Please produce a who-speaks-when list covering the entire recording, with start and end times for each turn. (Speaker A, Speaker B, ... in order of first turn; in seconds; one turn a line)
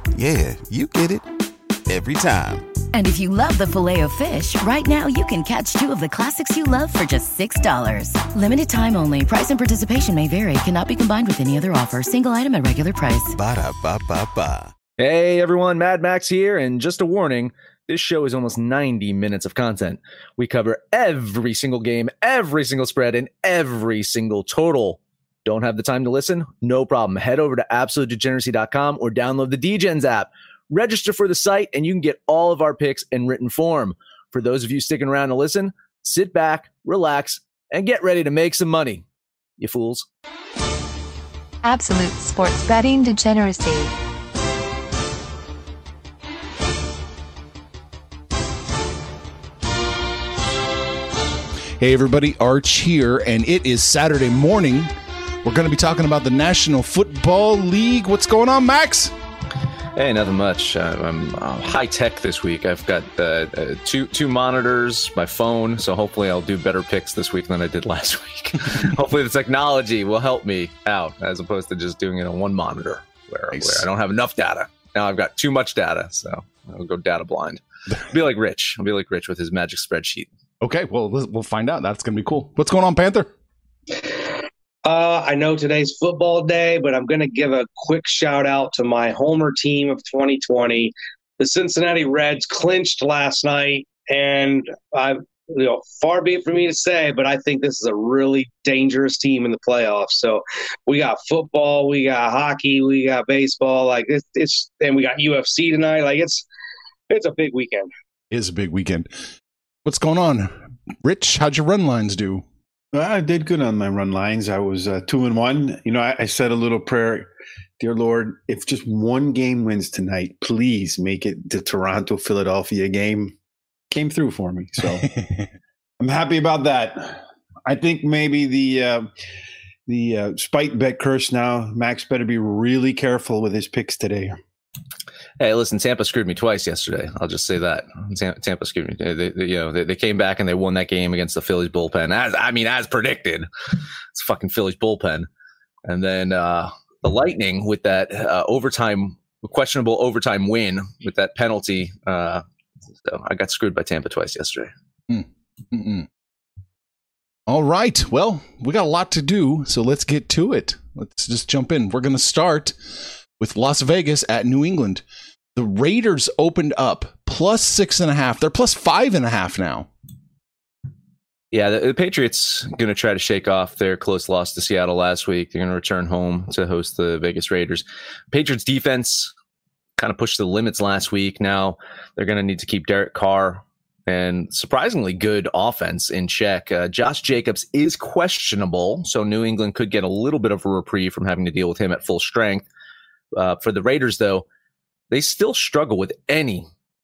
Speaker A: 0.1-1.2
Speaker A: 1.9-2.7
Speaker B: 2.9-13.3
Speaker A: 13.3-14.7
Speaker C: 15.0-39.0
Speaker C: 39.6-40.1
Speaker D: 41.6-44.0
Speaker E: 51.8-54.9
Speaker E: 55.4-59.1
Speaker C: 60.0-80.3
Speaker E: 73.5-73.8
Speaker E: 80.6-83.3
Speaker F: 84.8-106.5
Speaker F: 107.1-107.9
Speaker E: 108.3-109.1
Speaker E: 109.8-112.4
Speaker G: 112.9-117.3
Speaker G: 117.8-123.3
Speaker G: 123.9-125.1
Speaker G: 126.0-129.1
Speaker G: 129.9-134.4
Speaker C: 135.4-143.5
Speaker C: 144.1-145.3
Speaker C: 145.9-152.4
Speaker C: 153.0-154.7
Speaker E: 155.1-156.1
Speaker E: 157.5-162.8
Speaker E: 163.4-165.0
Speaker E: 165.6-169.9
Speaker C: 171.5-179.3
Speaker C: 180.0-192.7
Speaker C: 193.3-194.5
Speaker C: 195.1-196.7